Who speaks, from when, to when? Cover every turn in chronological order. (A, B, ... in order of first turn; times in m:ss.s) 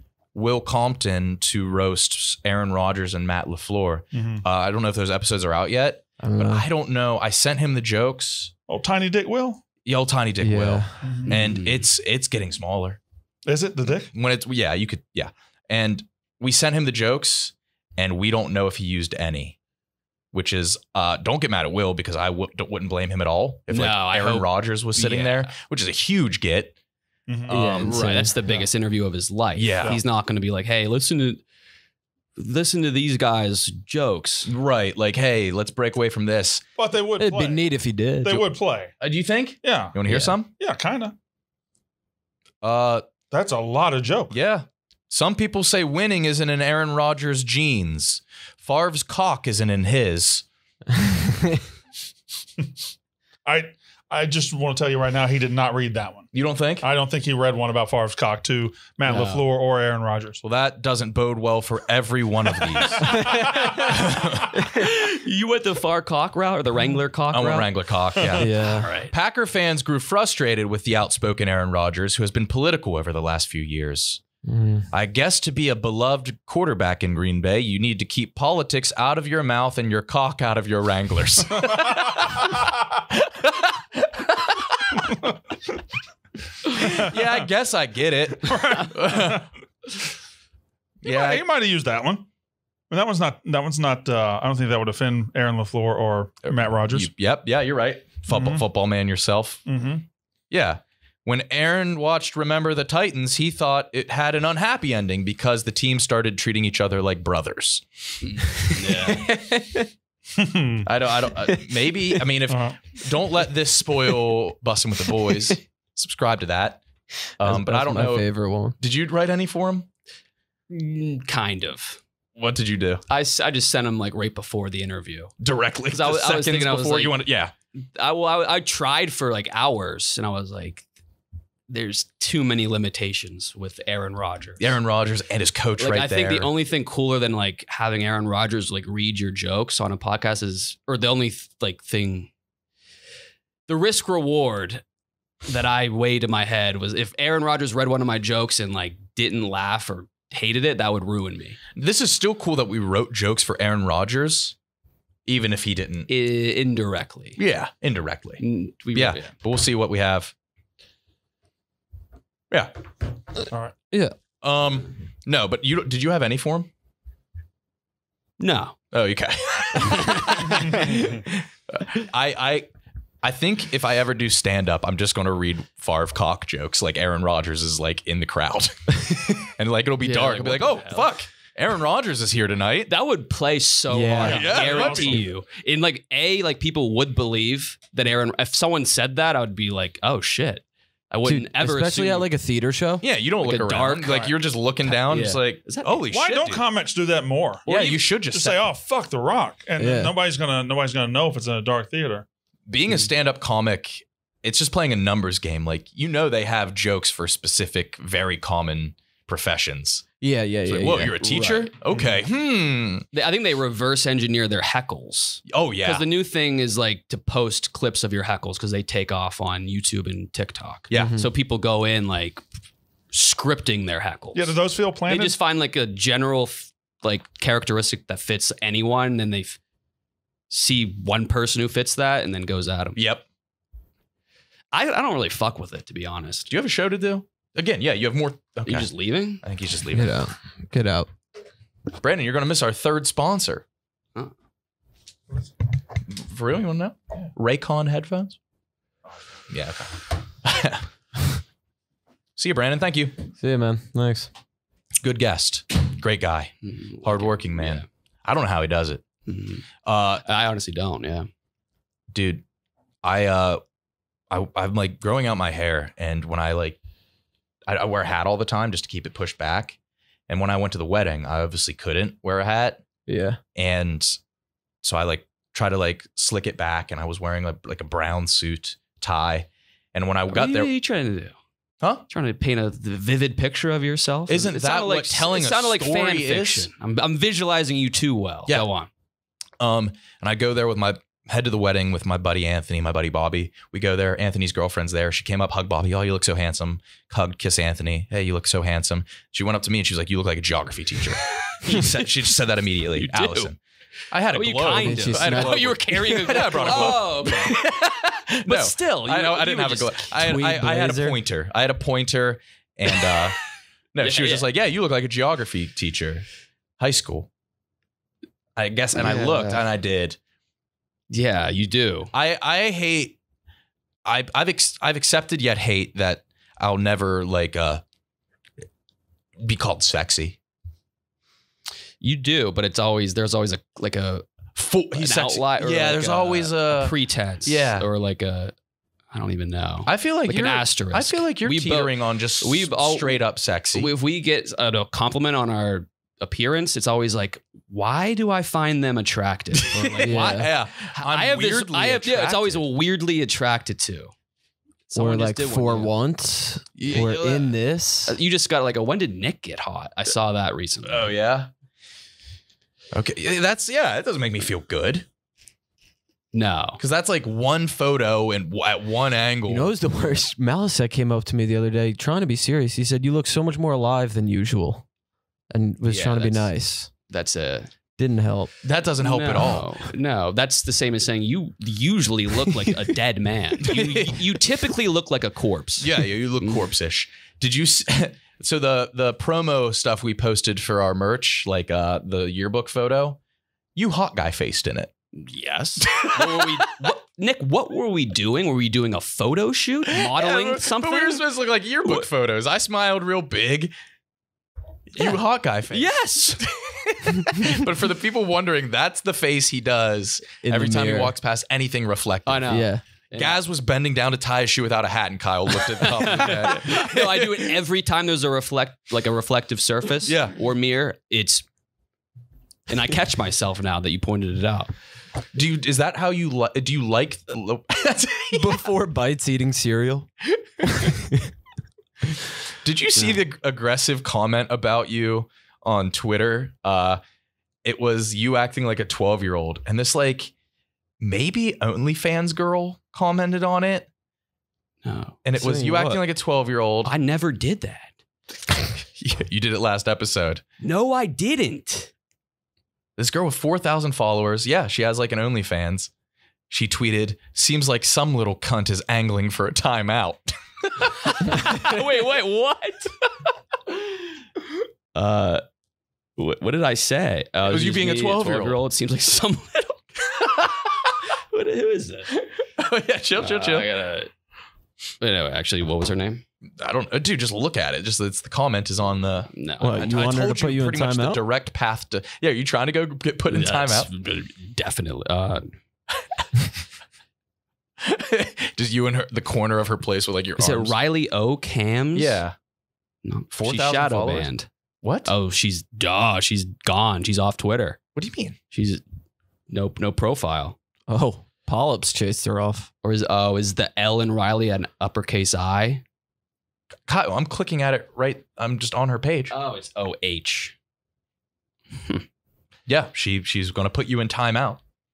0:00.3-0:08.5 A
0:04.1-0:04.4 B
0:06.2-0:06.7 C
0:08.7-0:09.6 B
0:09.8-0:13.0 A
0:10.4-0:11.0 C
0:11.0-0:11.3 B
0:11.3-0:11.8 D
0:13.5-0:14.1 B
0:14.1-0:19.6 A
0:20.3-0:26.8 A
0:23.7-0:25.5 D
0:27.3-0:27.6 B
0:27.5-0:28.3 A
0:27.5-0:31.4 D
0:27.8-0:28.3 C
0:29.6-0:30.0 A
0:32.4-0:34.5 D
0:34.5-0:36.6 A
0:36.8-0:37.6 B
0:37.2-0:38.5 C
0:38.2-0:38.9 B
0:39.0-0:40.5 A
0:39.6-0:40.0 B
0:40.1-0:40.4 D
0:40.5-0:41.1 B
0:42.6-0:43.0 A
0:43.3-0:44.4 B
0:44.3-0:50.4 A
0:51.1-0:51.6 C
0:53.5-0:56.3 B
0:56.3-0:56.9 A
0:56.8-1:00.4 B
0:59.1-0:59.4 D
1:00.4-1:04.5 A
1:02.7-1:03.9 B
1:03.0-1:03.5 C
1:03.3-1:07.7 D
1:07.3-1:14.2 A
1:08.3-1:08.9 C
1:08.6-1:09.1 D
1:14.4-1:14.9 C
1:14.9-1:25.2 A
1:21.6-1:22.7 B
1:25.1-1:25.4 B
1:26.7-1:27.4 B
1:26.7-1:29.5 A
1:28.4-1:29.5 B
1:31.0-1:31.4 A
1:31.0-1:32.3 B
1:32.9-1:37.1 B
1:36.5-1:39.7 A
1:38.3-1:38.6 B
1:39.7-1:40.0 B
1:40.5-1:49.8 A
1:48.2-1:49.3 D
1:50.4-1:50.9 B
1:50.8-1:56.8 A
1:52.5-1:52.8 B
1:55.3-1:55.5 C
1:57.3-1:59.9 A
1:57.4-1:58.8 C
2:00.7-2:02.0 D
2:02.4-2:03.0 A
2:03.1-2:05.3 D
2:05.4-2:07.5 A
2:05.9-2:07.2 D
2:07.8-2:10.8 D
2:11.7-2:14.7 D
2:14.6-2:16.5 A
2:15.8-2:22.3 D
2:23.7-2:24.8 D
2:25.4-2:31.6 D
2:31.8-2:34.6 A
2:35.3-2:36.1 A
2:36.1-2:37.4 D
2:37.4-2:40.3 A
2:38.4-2:39.3 D
2:44.4-2:46.7 A
2:48.4-2:48.8 D
2:48.9-2:52.7 A
2:49.8-2:50.6 D
2:53.2-3:02.9 A
3:00.0-3:01.1 D
3:02.9-3:12.3 D
3:03.9-3:04.5 C
3:04.2-3:05.3 B
3:04.2-3:05.2 A
3:11.2-3:13.0 C
3:13.0-3:16.6 A
3:13.4-3:14.3 D
3:14.9-3:16.0 D
3:16.1-3:22.3 B
3:17.7-3:18.6 A
3:17.7-3:18.0 D
3:19.8-3:20.2 C
3:22.7-3:30.1 A
3:30.2-3:31.7 C
3:30.7-3:33.1 A
3:33.1-3:42.4 D
3:35.5-3:36.1 A
3:40.9-3:41.3 C
3:43.1-3:49.6 D
3:44.3-3:45.4 B
3:50.5-3:53.0 D
3:53.0-3:53.2 A
3:54.7-3:56.5 D
3:56.5-3:58.9 A
3:58.7-3:59.4 D
3:59.4-4:00.3 A
3:59.9-4:01.1 C
4:02.0-4:03.6 A
4:06.1-4:08.4 A
4:09.5-4:10.9 A
4:12.4-4:13.1 A
4:13.4-4:14.3 C
4:15.0-4:19.0 A
4:16.6-4:17.9 D
4:19.3-4:19.7 D
4:19.8-4:20.2 A
4:20.2-4:21.3 D
4:22.1-4:22.4 A
4:23.0-4:23.6 A
4:24.3-4:26.8 A
4:27.7-4:29.8 A
4:30.3-4:32.8 A
4:33.1-4:33.4 C
4:33.6-4:34.2 A
4:34.8-4:40.7 A
4:40.3-4:41.4 D
4:42.1-4:48.9 D
4:44.3-4:46.7 A
4:49.6-5:03.6 A
5:01.3-5:02.1 D
5:03.0-5:03.5 D
5:04.1-5:13.4 A
5:04.3-5:07.6 D
5:04.7-5:05.6 C
5:08.4-5:10.2 D
5:10.2-5:11.2 C
5:13.9-5:16.3 A
5:14.0-5:14.4 D
5:16.8-5:17.3 A
5:18.6-5:20.2 A
5:18.9-5:19.6 D
5:21.1-5:22.1 D
5:22.1-5:23.1 A
5:24.0-5:27.8 A
5:29.4-5:30.4 A
5:32.0-5:34.3 D
5:34.6-5:37.9 A
5:34.9-5:38.5 D
5:39.1-5:43.2 D
5:39.9-5:43.9 A
5:43.8-5:54.1 D
5:49.7-5:52.6 A
5:50.0-5:50.5 C
5:54.9-5:55.9 D
5:55.0-5:58.2 C
5:56.8-5:57.6 A
5:58.1-6:01.1 D
6:00.9-6:01.5 A
6:02.9-6:05.0 A
6:06.3-6:06.8 D
6:06.8-6:09.7 A
6:09.5-6:14.9 C
6:15.5-6:16.9 C
6:15.9-6:16.5 D
6:17.1-6:17.7 D
6:18.0-6:18.5 C
6:18.6-6:19.8 A
6:19.0-6:26.6 D
6:23.6-6:24.4 A
6:25.8-6:33.2 A
6:33.8-6:34.9 A
6:35.2-6:41.2 D
6:35.8-6:36.9 A
6:39.9-6:43.7 A
6:44.9-6:52.6 A
6:45.7-6:46.5 D
6:50.4-6:51.1 C
6:52.3-6:53.4 D
6:52.5-6:52.8 C
6:53.2-6:57.6 A
6:55.7-7:01.4 D
7:00.0-7:00.3 A
7:02.7-7:04.7 D
7:05.3-7:08.6 A
7:08.3-7:10.1 C
7:10.4-7:10.7 A
7:10.6-7:11.3 C
7:12.6-7:17.0 A
7:17.6-7:20.3 A
7:21.0-7:23.9 A
7:24.8-7:25.2 D
7:25.2-7:26.9 A
7:25.4-7:26.0 C
7:26.8-7:27.9 D
7:28.8-7:30.4 A
7:30.6-7:31.9 D
7:33.0-7:35.9 A
7:36.5-7:41.6 A
7:41.2-7:43.0 D
7:44.9-7:45.4 D
7:46.2-7:50.5 D
7:47.4-7:48.6 A
7:51.1-7:52.1 D
7:52.2-7:53.7 A
7:53.2-7:54.1 D
7:55.0-7:56.2 D
7:56.6-8:03.9 A
7:59.3-7:59.9 D
7:59.6-8:01.2 C
8:03.3-8:05.5 D
8:06.0-8:06.3 A
8:07.8-8:10.8 A
8:10.4-8:12.2 D
8:12.0-8:12.4 A
8:13.0-8:14.5 D
8:13.3-8:14.3 A
8:14.8-8:15.1 A
8:15.1-8:17.8 D
8:18.0-8:18.4 A
8:18.5-8:18.8 D
8:19.5-8:20.6 D
8:20.9-8:22.7 C
8:22.8-8:25.8 D
8:26.9-8:29.4 A
8:29.3-8:30.6 D
8:31.8-8:32.0 D
8:32.7-8:34.6 A